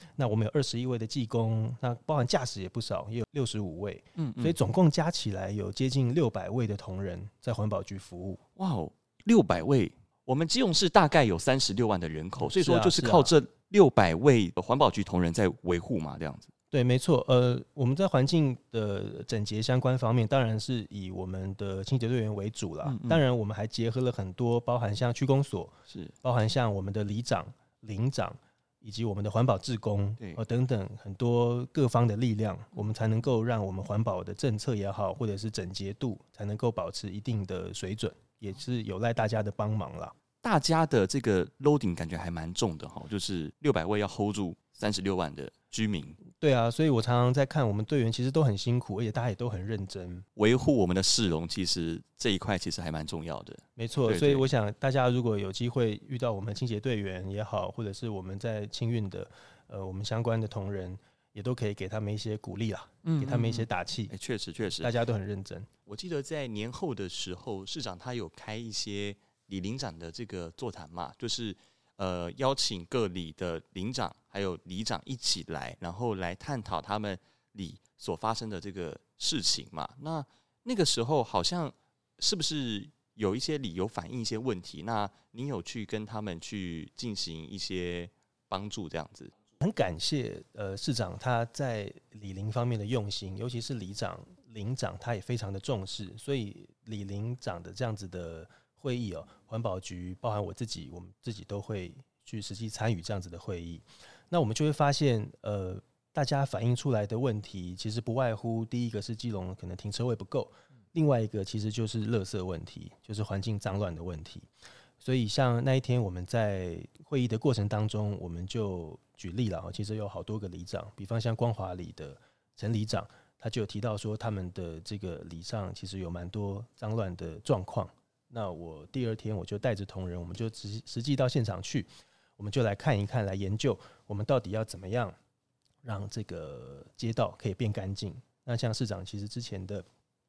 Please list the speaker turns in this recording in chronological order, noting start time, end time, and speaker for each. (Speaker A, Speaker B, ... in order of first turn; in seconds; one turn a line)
Speaker A: 0.2-8.4
Speaker B: 4.2-4.5
Speaker B: 8.6-16.5
Speaker A: 12.4-13.3
Speaker A: 16.7-40.1
Speaker B: 22.8-23.2
Speaker B: 40.4-46.2
Speaker A: 46.4-50.2
Speaker B: 50.4-54.5
Speaker A: 53.8-64.1
Speaker B: 63.0-64.9
Speaker A: 64.8-65.7
Speaker B: 65.9-89.3
Speaker A: 89.6-114.5
Speaker A: 115.0-131.9
Speaker A: 132.4-135.2
Speaker A: 135.8-139.8